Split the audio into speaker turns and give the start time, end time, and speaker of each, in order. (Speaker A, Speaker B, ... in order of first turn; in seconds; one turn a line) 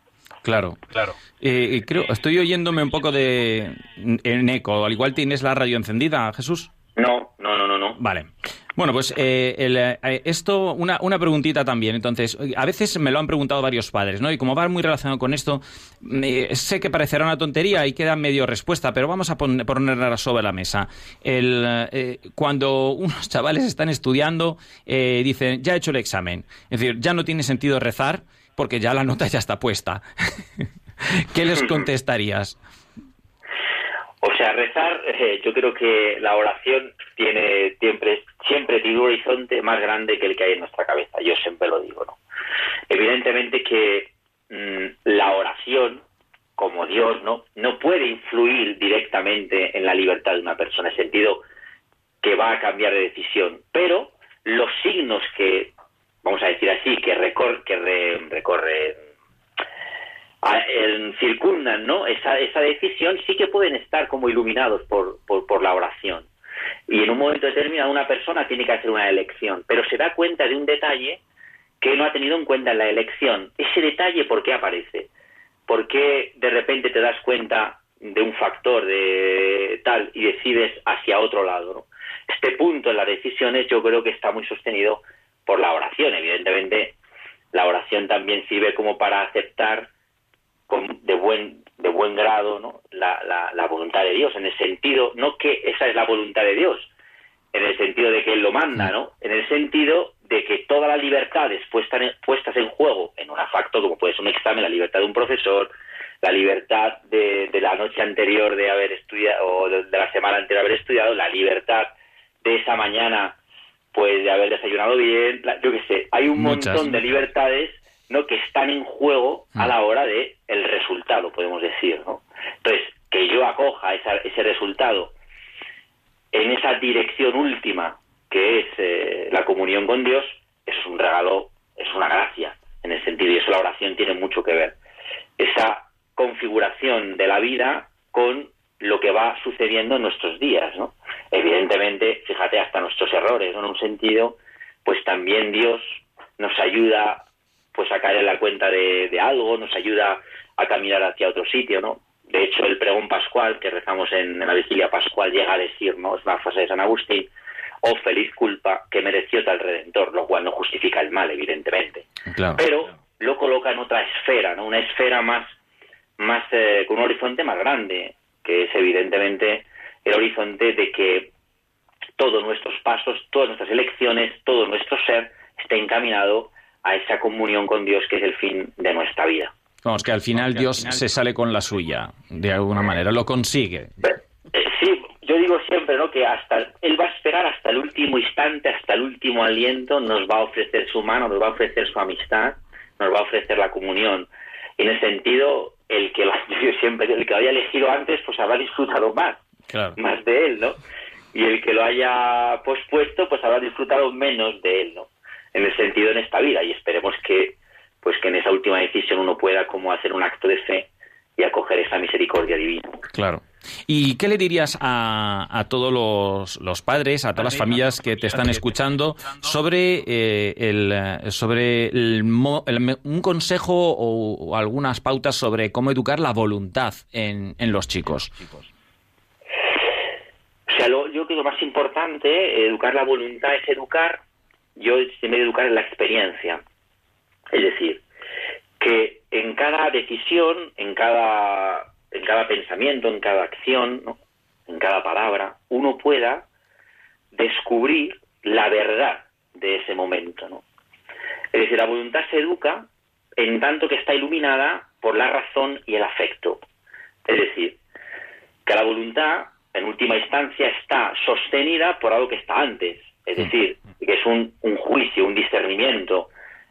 Speaker A: 0.4-0.9
Speaker A: 1.4-6.7
Speaker B: 7.0-8.0
Speaker A: 8.0-32.6
Speaker B: 34.2-42.2
Speaker B: 42.9-46.0
Speaker B: 46.6-51.4
Speaker B: 52.2-55.7
Speaker B: 56.2-59.0
Speaker B: 60.4-66.3
Speaker B: 66.9-71.2
Speaker B: 71.8-75.1
Speaker B: 75.7-87.0
Speaker B: 87.5-89.9
Speaker B: 90.7-96.9
Speaker B: 97.5-113.4
Speaker B: 113.9-125.2
Speaker A: 116.3-117.0
Speaker B: 126.3-134.8
Speaker B: 135.4-157.3
Speaker B: 157.8-165.5
Speaker A: 162.3-162.6
Speaker B: 166.2-171.3
Speaker B: 172.2-179.5
Speaker A: 179.8-183.9
Speaker B: 184.1-199.4
Speaker A: 199.7-200.0
Speaker B: 200.0-200.8
Speaker B: 201.3-213.0
Speaker A: 213.1-228.5
Speaker B: 230.7-234.2
Speaker B: 234.8-236.6
Speaker B: 237.5-238.0
Speaker B: 238.8-244.2
Speaker B: 244.7-246.5
Speaker B: 247.3-250.6
Speaker B: 251.5-252.9
Speaker B: 253.4-256.6
Speaker B: 257.3-257.8
Speaker B: 258.6-266.3